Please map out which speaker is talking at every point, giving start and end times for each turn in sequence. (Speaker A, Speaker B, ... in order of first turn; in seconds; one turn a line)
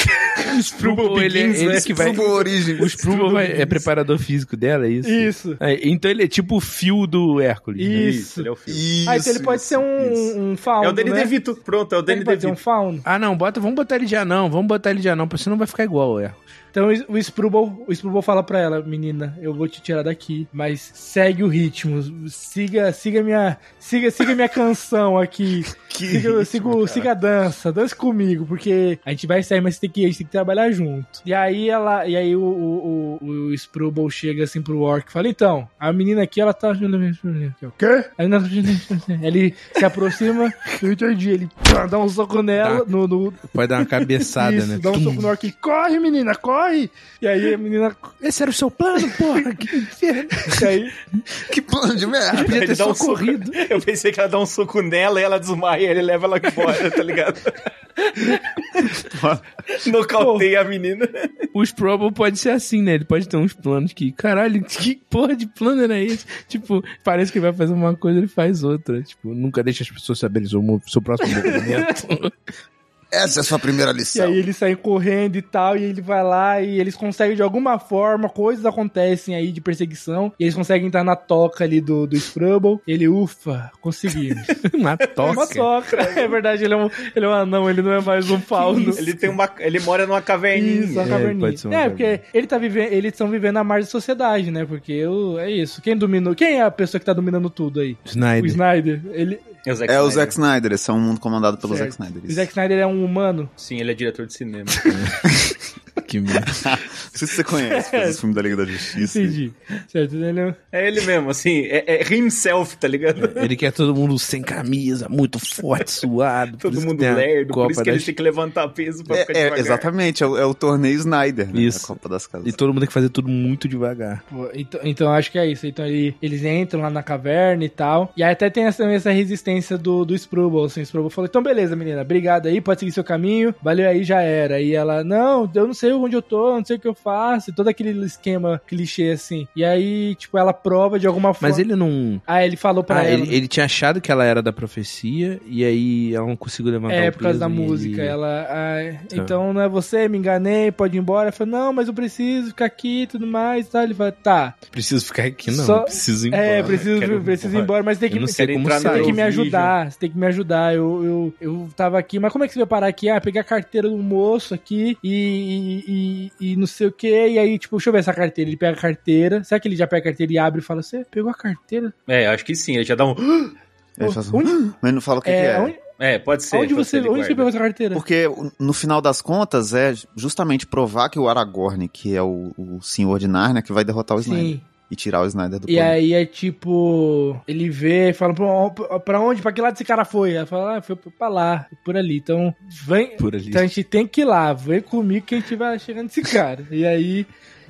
Speaker A: 0.2-2.5
Speaker B: 0.3-8.1
Speaker C: 1.9-3.4
Speaker D: 3.0-3.9
Speaker D: 5.0-5.6
Speaker D: 7.8-8.5
Speaker A: 7.9-8.8
Speaker C: 8.7-10.3
Speaker D: 9.1-11.3
Speaker A: 10.8-12.6
Speaker D: 12.1-13.0
Speaker B: 13.0-16.5
Speaker D: 16.7-43.5
Speaker C: 25.7-27.1
Speaker B: 42.6-42.9
Speaker B: 43.4-45.3
Speaker D: 44.2-48.1
Speaker B: 48.2-50.7
Speaker D: 50.5-50.9
Speaker C: 51.4-52.7
Speaker B: 52.3-53.6
Speaker A: 52.4-57.6
Speaker C: 59.0-59.4
Speaker A: 59.7-61.3
Speaker D: 60.2-60.5
Speaker B: 61.5-72.3
Speaker D: 71.6-71.9
Speaker C: 73.1-74.4
Speaker D: 74.1-84.5
Speaker B: 84.6-85.7
Speaker A: 85.2-86.4
Speaker D: 85.2-89.3
Speaker B: 88.6-89.0
Speaker A: 88.7-91.1
Speaker D: 90.5-99.5
Speaker B: 91.0-92.2
Speaker B: 98.0-98.6
Speaker A: 99.7-100.3
Speaker C: 99.9-102.5
Speaker D: 101.6-103.5
Speaker A: 103.6-104.9
Speaker B: 104.9-105.2
Speaker B: 106.0-106.5
Speaker C: 106.5-109.4
Speaker D: 107.5-108.2
Speaker D: 109.0-110.6
Speaker A: 110.7-113.5
Speaker B: 113.2-118.1
Speaker A: 116.6-119.9
Speaker C: 119.1-122.5
Speaker B: 121.5-124.2
Speaker D: 124.3-141.6
Speaker B: 141.4-142.2
Speaker D: 142.3-143.4
Speaker B: 142.9-148.2
Speaker D: 146.9-154.6
Speaker B: 154.7-156.8
Speaker D: 155.5-171.9
Speaker A: 156.6-157.7
Speaker B: 158.1-159.2
Speaker A: 158.3-159.8
Speaker A: 172.1-173.5
Speaker C: 174.0-175.7
Speaker D: 174.0-174.6
Speaker D: 175.2-175.8
Speaker A: 176.0-177.5
Speaker D: 176.5-178.0
Speaker C: 177.9-186.0
Speaker D: 184.2-184.6
Speaker D: 185.7-197.3
Speaker B: 193.2-193.7